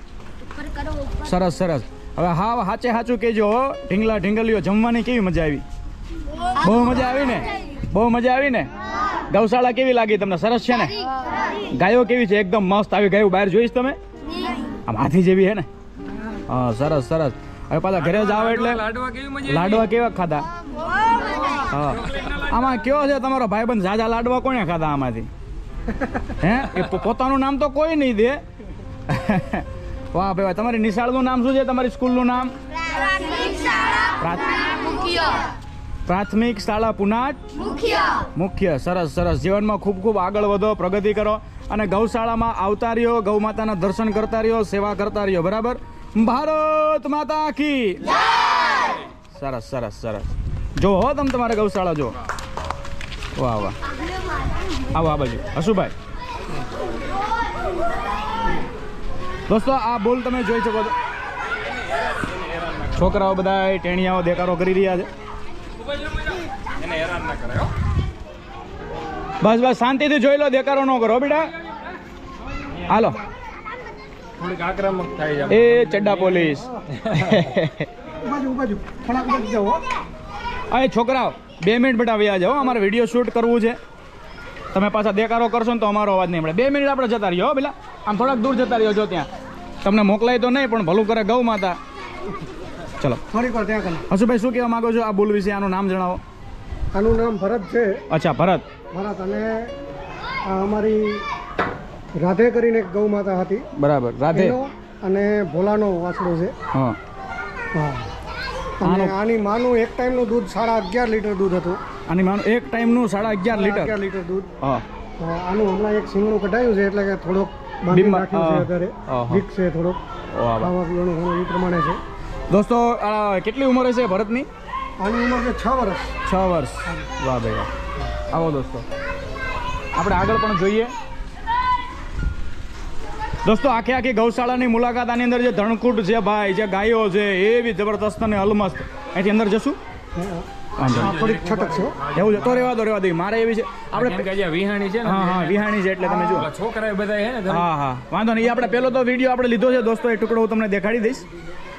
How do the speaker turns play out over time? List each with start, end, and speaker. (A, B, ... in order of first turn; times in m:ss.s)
0:01.2-0:05.6 A
0:06.6-0:08.7 A
0:09.3-0:11.0 A
0:11.7-0:14.0 A
0:14.9-0:15.7 A
0:16.5-0:18.8 A
0:18.0-0:19.9 B
0:19.5-0:20.5 A
0:21.7-0:25.3 A
0:26.4-0:28.4 A
0:29.1-0:32.5 A
0:34.2-0:34.9 A
0:36.1-0:37.4 A
0:38.4-0:48.0 A
0:49.3-0:52.2 A
0:53.4-0:53.8 A
0:54.9-0:55.9 A
0:59.5-1:01.0 A
1:03.0-1:05.1 A
1:06.8-1:07.7 B
1:09.4-1:11.5 A
1:12.9-1:13.2 A
1:14.4-1:17.4 B
1:15.5-1:17.9 A
1:18.2-1:19.8 C
1:20.7-1:23.8 A
1:24.7-1:29.3 A
1:29.8-1:31.8 A
1:33.3-1:34.1 C
1:34.1-1:36.2 A
1:36.9-1:38.0 C
1:38.1-1:38.6 A
1:38.9-1:39.7 C
1:40.5-1:41.2 C
1:42.2-1:43.7 C
1:43.8-1:44.6 A
1:44.3-1:46.6 C
1:47.7-1:48.1 C
1:48.8-1:51.8 C
1:48.8-1:49.2 A
1:52.1-1:54.0 A
1:53.5-1:54.5 C
1:55.2-2:00.0 C
1:57.9-1:59.4 A
2:00.3-2:00.7 A
2:00.6-2:02.0 C
2:02.5-2:04.5 A
2:05.0-2:06.2 C
2:06.2-2:07.7 A
2:08.3-2:08.8 A
2:10.0-2:10.9 A
2:13.4-2:19.8 A
2:20.2-2:22.0 C
2:20.8-2:21.2 A
2:20.8-2:22.7 B
2:22.1-2:24.3 A
2:23.9-2:27.7 B
2:25.0-2:26.5 A
2:27.5-2:31.2 A